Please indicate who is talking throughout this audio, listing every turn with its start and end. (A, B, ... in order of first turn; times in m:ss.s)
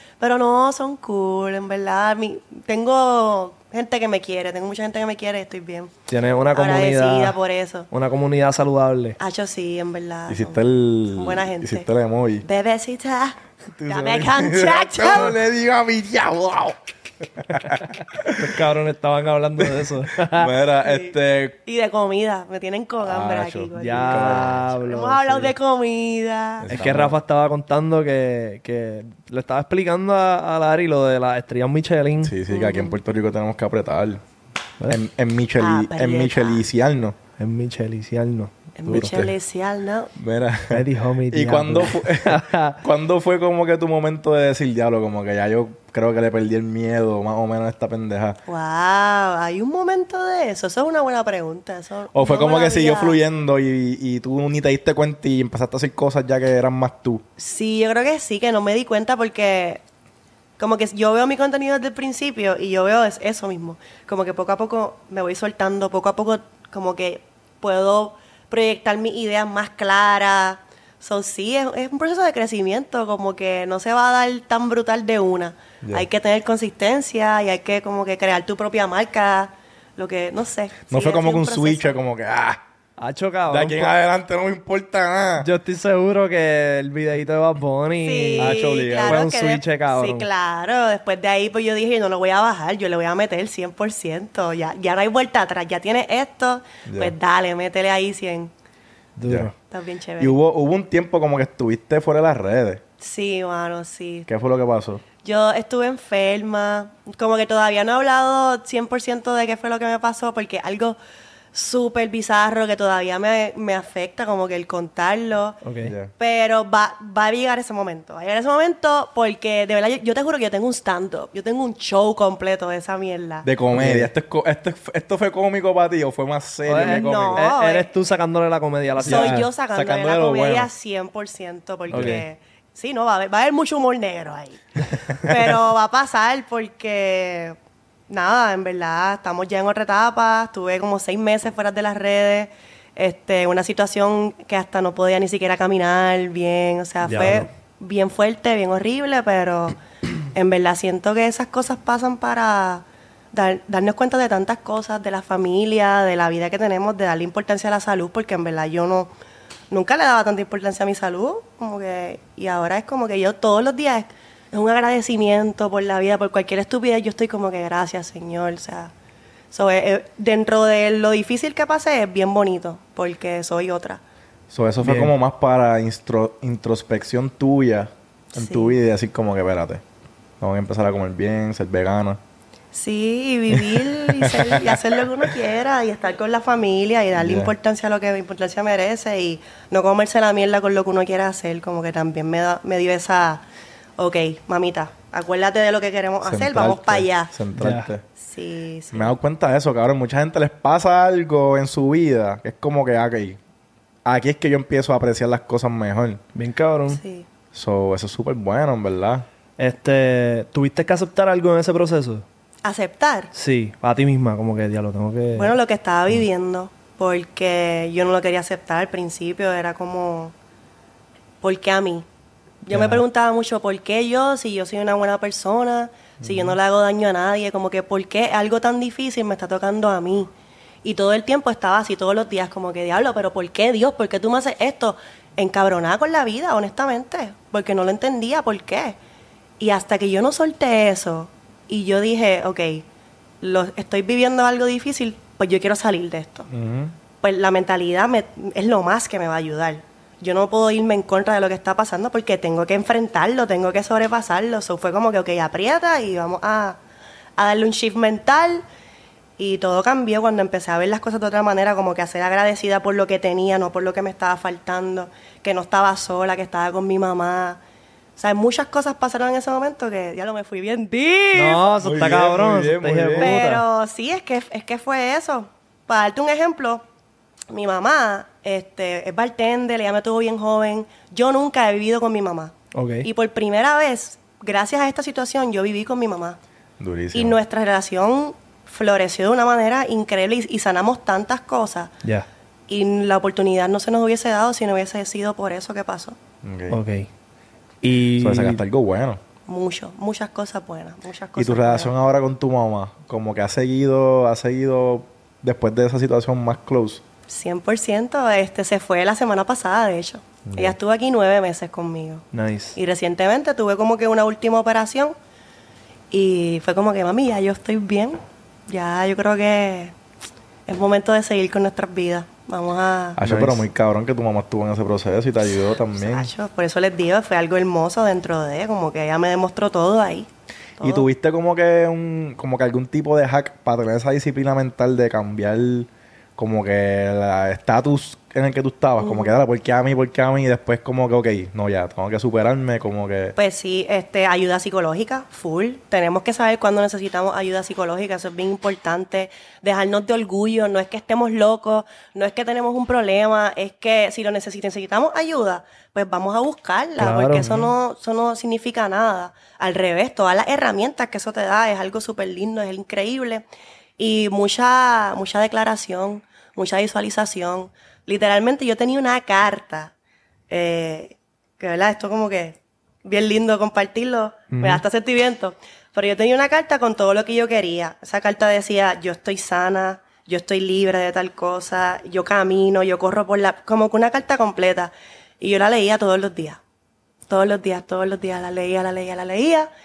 0:00.2-0:05.9 A
0:06.1-0:07.4 B
0:06.5-0:07.9 A
0:07.9-0:09.2 B
0:09.2-0:10.6 A
0:10.3-0:12.4 C
0:11.2-0:11.9 A
0:12.4-0:15.4 A
0:13.8-0:16.8 C
0:17.4-0:18.6 C
0:18.4-0:20.5 B
0:19.7-0:21.6 C
0:20.8-0:21.2 A
0:21.7-0:26.7 A
0:23.0-0:24.8 C
0:23.8-0:25.6 B
0:26.6-0:27.2 C
0:26.7-0:32.4 B
0:32.2-0:34.2 C
0:32.5-0:33.0 A
0:34.9-0:37.2 C
0:35.6-0:36.6 A
0:37.4-0:39.1 B
0:38.8-0:40.1 A
0:38.9-0:39.3 C
0:40.2-0:48.4 C
0:40.7-0:42.8 B
0:48.5-0:53.2 A
0:52.1-0:57.2 C
0:57.4-0:59.8 A
1:00.6-1:22.0 A
1:20.9-1:22.6 C
1:23.0-1:23.9 B
1:23.5-1:25.5 C
1:25.4-1:30.3 B
1:28.0-1:38.5 A
1:28.4-1:29.2 C
1:36.9-1:37.1 C
1:39.2-1:39.5 B
1:39.2-1:39.5 C
1:39.7-1:40.4 A
1:40.2-1:42.8 C
1:43.0-1:44.3 A
1:44.3-1:45.0 C
1:45.2-1:51.0 A
1:51.5-1:55.6 A
1:55.6-1:55.9 B
1:55.8-1:56.1 C
1:56.2-2:03.5 A
2:03.4-2:07.5 C
2:03.8-2:04.1 B
2:06.7-2:09.5 B
2:06.8-2:07.9 A
2:09.0-2:10.7 C
2:09.0-2:17.6 A
2:11.9-2:12.2 C
2:11.9-2:12.3 B
2:18.1-2:29.8 A
2:27.0-2:27.5 B
2:30.3-2:39.1 A
2:39.7-2:48.9 A
2:49.5-2:54.0 A
2:54.5-2:59.8 C
2:54.8-2:55.1 B
2:58.4-2:58.8 A
3:00.4-3:02.2 C
3:02.7-3:13.4 A
3:04.1-3:04.8 C
3:07.2-3:07.5 C
3:14.0-3:17.3 A
3:16.2-3:18.0 C
3:17.6-3:17.9 B
3:18.2-3:19.2 A
3:18.9-3:23.4 C
3:24.0-3:26.2 C
3:26.4-3:27.0 B
3:26.9-3:27.3 A
3:27.5-3:29.3 C
3:29.6-3:32.3 B
3:32.6-3:33.3 A
3:33.3-3:35.6 B
3:35.4-3:40.3 A
3:41.4-3:42.0 A
3:42.6-3:50.3 A
3:42.7-3:43.0 B
3:46.2-3:46.6 C
3:50.8-3:59.0 A
3:59.6-4:02.8 A
4:03.4-4:06.5 A
4:06.5-4:07.0 C
4:07.2-4:16.8 A
4:17.4-4:18.6 A
4:19.4-4:27.6 A
4:28.2-4:31.6 A
4:31.3-4:33.6 B
4:31.8-4:33.4 C
4:33.2-4:36.8 A
4:37.5-4:46.4 A
4:42.7-4:43.1 B
4:46.8-4:47.4 C
4:47.1-4:51.9 A
4:52.7-4:56.2 A
4:56.4-4:56.8 C
4:56.7-4:57.1 B
4:57.8-4:58.6 B
4:58.2-4:59.2 C
4:59.5-5:01.9 A
5:01.4-5:07.0 C
5:07.3-5:15.2 A
5:10.5-5:10.8 C
5:12.3-5:12.8 B
5:16.1-5:19.9 A
5:20.7-5:23.2 A
5:23.2-5:26.3 C
5:23.2-5:23.7 B
5:25.9-5:31.1 A
5:30.8-5:43.4 C
5:39.0-5:39.4 A
5:43.4-6:03.5 A
5:57.0-5:57.5 B
5:57.4-5:57.7 C
6:04.0-6:09.9 A
6:10.5-6:26.6 A
6:14.5-6:14.8 B
6:27.3-6:29.7 A